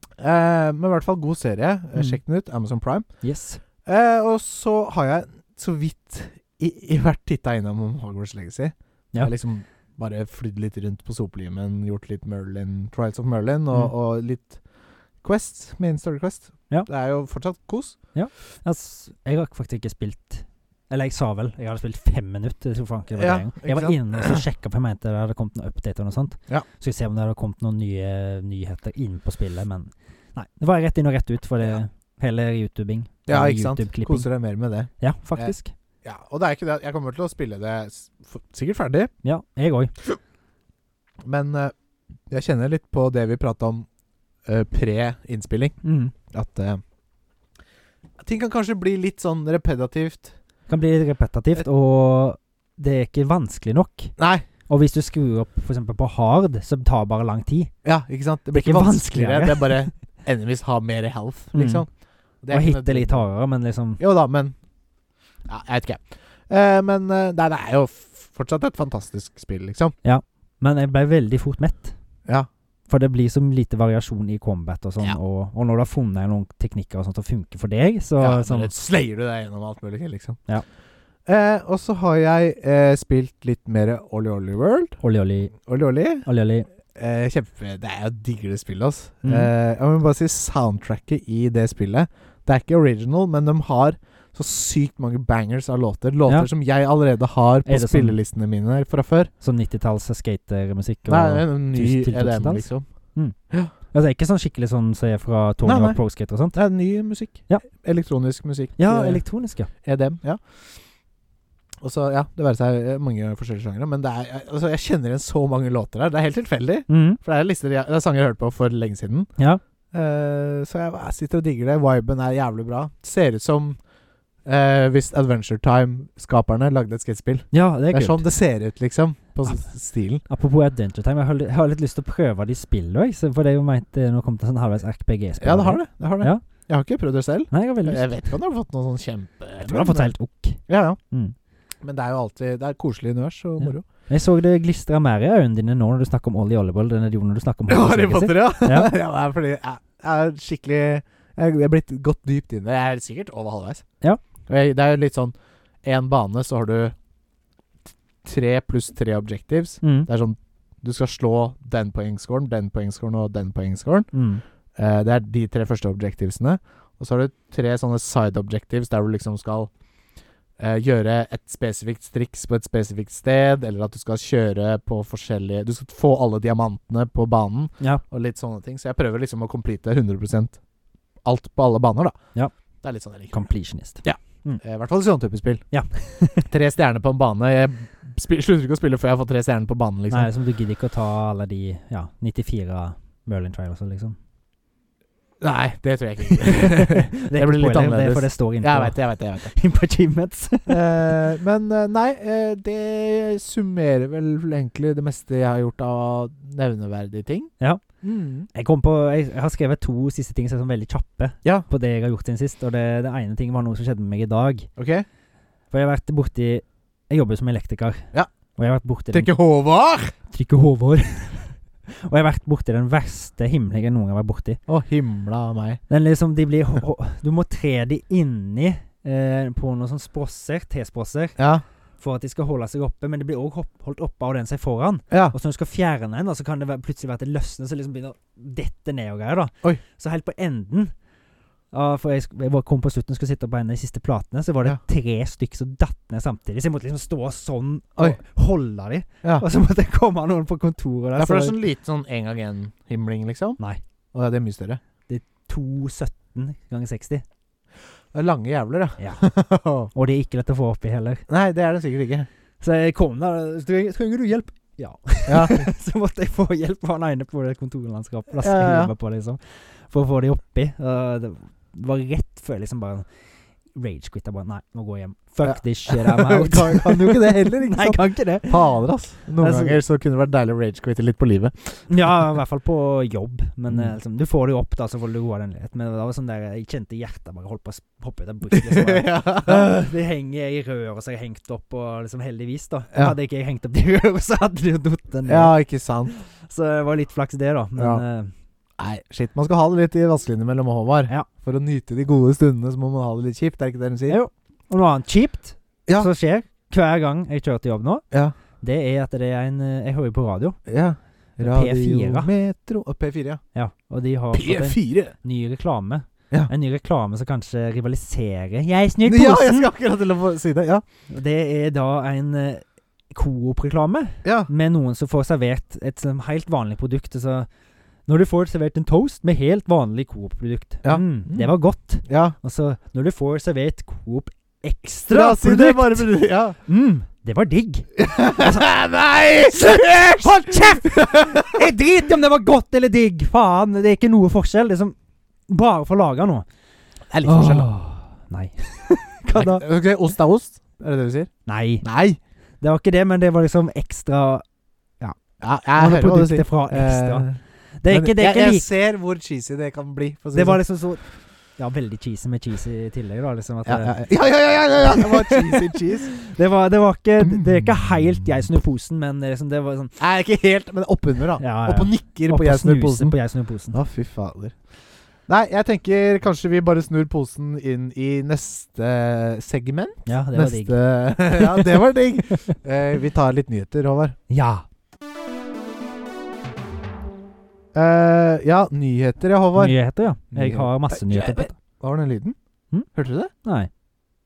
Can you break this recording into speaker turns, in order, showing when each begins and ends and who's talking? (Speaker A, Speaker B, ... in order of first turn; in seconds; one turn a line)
Speaker A: 0.2-3.1
Speaker B: 3.2-3.6
Speaker A: 3.8-14.6
Speaker A: 15.2-18.0
Speaker B: 18.1-34.3
Speaker A: 23.2-24.4
Speaker A: 33.3-39.1
Speaker B: 35.0-35.7
Speaker B: 39.2-39.9
Speaker A: 41.2-41.7
Speaker A: 42.3-43.9
Speaker A: 44.5-45.8
Speaker B: 45.8-46.1
Speaker A: 46.3-46.8
Speaker A: 48.2-50.3
Speaker B: 50.7-57.7
Speaker A: 54.2-54.5
Speaker A: 57.8-61.9
Speaker B: 58.5-59.9
Speaker B: 61.5-61.8
Speaker A: 62.4-63.2
Speaker B: 62.5-64.0
Speaker A: 64.0-64.5
Speaker A: 65.5-69.9
Speaker B: 70.0-71.9
Speaker B: 72.9-78.7
Speaker A: 78.2-80.4
Speaker A: 81.2-85.0
Speaker B: 85.0-85.6
Speaker A: 85.5-86.2
Speaker B: 86.2-86.7
Speaker A: 86.9-99.3
Speaker B: 89.2-89.5
Speaker B: 97.7-98.2
Speaker B: 99.4-103.3
Speaker A: 101.1-102.8
Speaker B: 103.9-106.6
Speaker A: 105.6-106.0
Speaker A: 106.5-110.7
Speaker B: 108.8-109.7
Speaker A: 111.8-119.3
Speaker B: 116.9-117.2
Speaker A: 119.9-123.8
Speaker A: 124.4-130.2
Speaker B: 127.5-128.2
Speaker B: 130.2-136.4
Speaker A: 135.4-140.1
Speaker B: 137.5-138.2
Speaker B: 139.6-141.3
Speaker A: 140.7-141.0
Speaker A: 141.8-143.8
Speaker B: 143.6-148.9
Speaker A: 147.7-153.8
Speaker A: 154.5-156.9
Speaker A: 158.2-164.1
Speaker B: 159.8-160.1
Speaker B: 164.1-164.4
Speaker A: 164.8-169.7
Speaker A: 170.6-180.6
Speaker A: 181.2-182.2
Speaker A: 182.8-183.3
Speaker B: 183.3-184.6
Speaker A: 184.0-185.6
Speaker B: 185.7-186.5
Speaker A: 186.5-190.3
Speaker B: 190.1-194.2
Speaker A: 195.4-199.5
Speaker B: 196.4-200.9
Speaker A: 200.7-208.5
Speaker B: 207.6-214.7
Speaker A: 214.8-215.1
Speaker B: 215.7-219.3
Speaker A: 219.1-220.1
Speaker B: 220.3-224.6
Speaker A: 224.7-225.8
Speaker B: 225.9-231.4
Speaker A: 231.4-231.6
Speaker B: 232.0-240.9
Speaker A: 235.1-235.3
Speaker B: 241.7-251.6
Speaker A: 251.2-253.6
Speaker A: 254.1-254.8
Speaker B: 255.1-257.2
Speaker A: 258.1-259.9
Speaker B: 259.0-259.2
Speaker B: 259.9-261.2
Speaker A: 261.3-262.3
Speaker B: 262.6-273.1
Speaker A: 265.3-265.7
Speaker A: 268.4-268.9
Speaker B: 273.7-278.7
Speaker A: 275.4-281.8
Speaker B: 279.4-279.8
Speaker B: 281.9-295.5
Speaker A: 288.5-289.7
Speaker A: 295.3-296.1
Speaker B: 296.1-298.3
Speaker A: 297.8-298.0
Speaker A: 298.8-304.2
Speaker B: 304.1-308.1
Speaker B: 308.6-310.6
Speaker A: 310.7-313.4
Speaker B: 311.4-312.3
Speaker B: 313.5-319.7
Speaker A: 314.3-315.1
Speaker A: 319.0-320.8
Speaker B: 321.1-327.5
Speaker A: 324.2-324.5
Speaker B: 328.1-336.1
Speaker A: 330.8-331.5
Speaker A: 332.0-332.4
Speaker A: 335.1-336.6
Speaker B: 336.6-338.7
Speaker A: 338.0-341.7
Speaker B: 339.4-344.9
Speaker B: 345.5-346.4
Speaker A: 347.1-347.7
Speaker B: 347.2-349.6
Speaker A: 349.3-352.2
Speaker B: 351.4-351.8
Speaker B: 352.6-354.4
Speaker A: 355.4-360.6
Speaker B: 355.8-357.3
Speaker B: 357.8-358.7
Speaker B: 360.3-361.0
Speaker B: 361.6-364.0
Speaker A: 363.6-366.1
Speaker B: 364.8-369.9
Speaker A: 367.2-367.7
Speaker A: 370.0-373.1
Speaker B: 371.4-373.8
Speaker A: 373.7-374.6
Speaker A: 375.3-384.1
Speaker B: 380.1-381.9
Speaker B: 384.3-384.6
Speaker A: 387.7-389.8
Speaker B: 389.6-391.5
Speaker A: 390.3-392.4
Speaker A: 392.9-393.3
Speaker B: 393.4-393.7